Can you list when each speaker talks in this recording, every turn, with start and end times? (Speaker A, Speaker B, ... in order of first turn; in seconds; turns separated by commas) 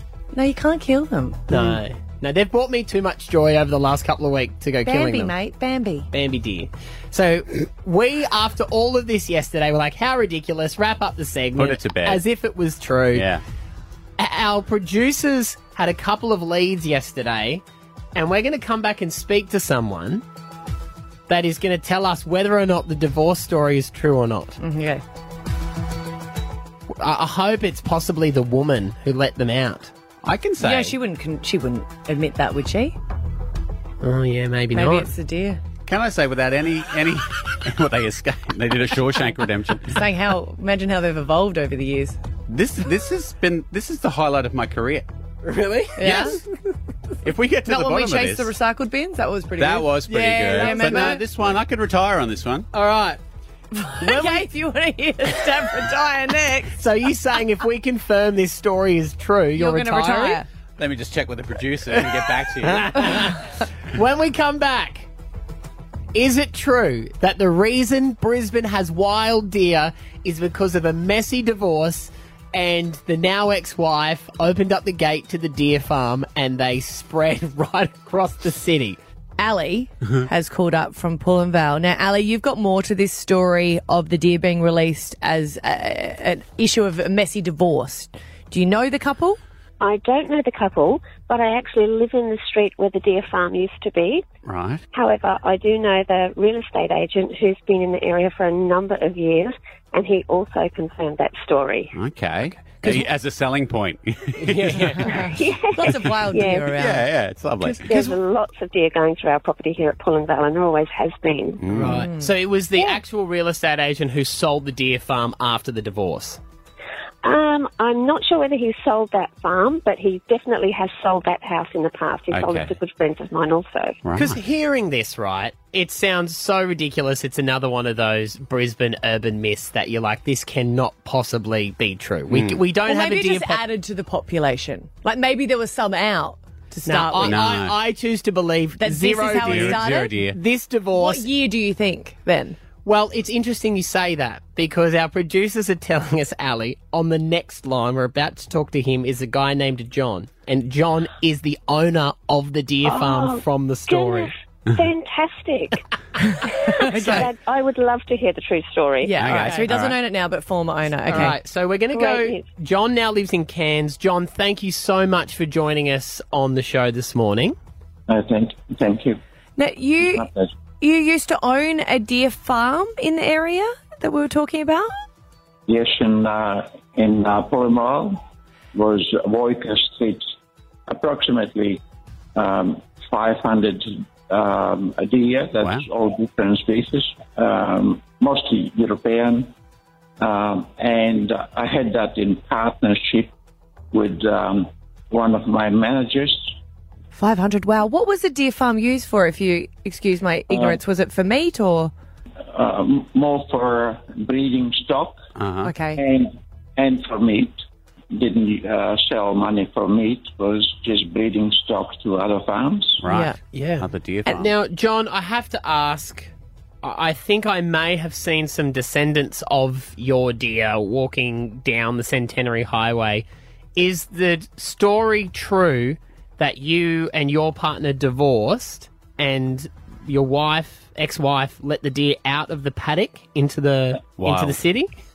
Speaker A: 0.3-1.8, Speaker B: 1.5-5.3, Speaker A: 4.8-6.1, Speaker B: 6.1-13.3, Speaker C: 11.6-12.2, Speaker C: 13.1-13.4, Speaker B: 14.2-17.6, Speaker B: 18.1-20.2, Speaker B: 21.3-24.6, Speaker A: 24.6-25.0, Speaker B: 26.9-29.9, Speaker C: 30.2-30.9, Speaker A: 30.6-33.0, Speaker B: 34.0-35.1, Speaker A: 34.7-35.6, Speaker C: 35.9-40.0, Speaker A: 39.9-42.2, Speaker C: 42.5-45.0, Speaker B: 45.4-46.2, Speaker A: 46.0-46.4, Speaker C: 46.0-46.4, Speaker C: 47.2-48.5, Speaker A: 47.7-51.2, Speaker C: 49.6-52.7, Speaker B: 50.1-51.2, Speaker B: 52.7-53.1, Speaker A: 53.7-56.7, Speaker B: 56.8-60.4, Speaker A: 59.5-60.5, Speaker C: 60.8-63.3, Speaker B: 61.9-65.1, Speaker B: 66.1-79.0, Speaker A: 79.4-89.4, Speaker D: 89.8-94.2, Speaker C: 94.4-94.8, Speaker D: 94.9-101.9, Speaker C: 101.9-105.1, Speaker B: 102.8-103.0, Speaker B: 104.4-105.1, Speaker A: 105.1-107.0, Speaker D: 105.3-106.7, Speaker C: 106.7-108.0, Speaker D: 107.6-111.6, Speaker C: 111.6-112.0, Speaker B: 111.7-116.4, Speaker A: 112.0-112.3, Speaker D: 117.2-124.0, Speaker C: 122.3-122.8, Speaker C: 124.0-124.4, Speaker B: 124.2-133.6, Speaker C: 132.3-132.6, Speaker A: 132.8-137.4, Speaker B: 136.8-141.3, Speaker C: 137.2-137.8, Speaker A: 138.8-140.2, Speaker C: 139.4-140.4, Speaker A: 140.9-142.6, Speaker B: 142.8-154.3, Speaker D: 152.8-155.8, Speaker D: 156.4-159.2, Speaker A: 156.8-157.3, Speaker B: 156.9-157.2, Speaker A: 159.0-161.3, Speaker C: 159.2-160.0, Speaker B: 159.3-159.7, Speaker B: 161.1-167.6, Speaker D: 161.9-162.4, Speaker E: 168.1-169.2, Speaker A: 169.6-170.3, Speaker E: 170.0-170.5, Speaker A: 170.8-174.9, Speaker E: 175.7-178.2, Speaker E: 178.7-180.2, Speaker E: 180.9-181.8, Speaker E: 182.3-189.5, Speaker C: 185.6-185.9, Speaker E: 190.2-193.3, Speaker E: 193.9-196.5, Speaker A: 197.1-201.9, Speaker E: 200.5-200.8, Speaker E: 202.5-205.2, Speaker C: 205.3-205.7, Speaker A: 205.6-206.0, Speaker E: 205.9-207.6, Speaker E: 208.1-213.0, Speaker C: 213.0-214.5, Speaker A: 213.1-213.4, Speaker B: 213.5-216.3, Speaker B: 216.8-234.9, Speaker C: 234.2-234.6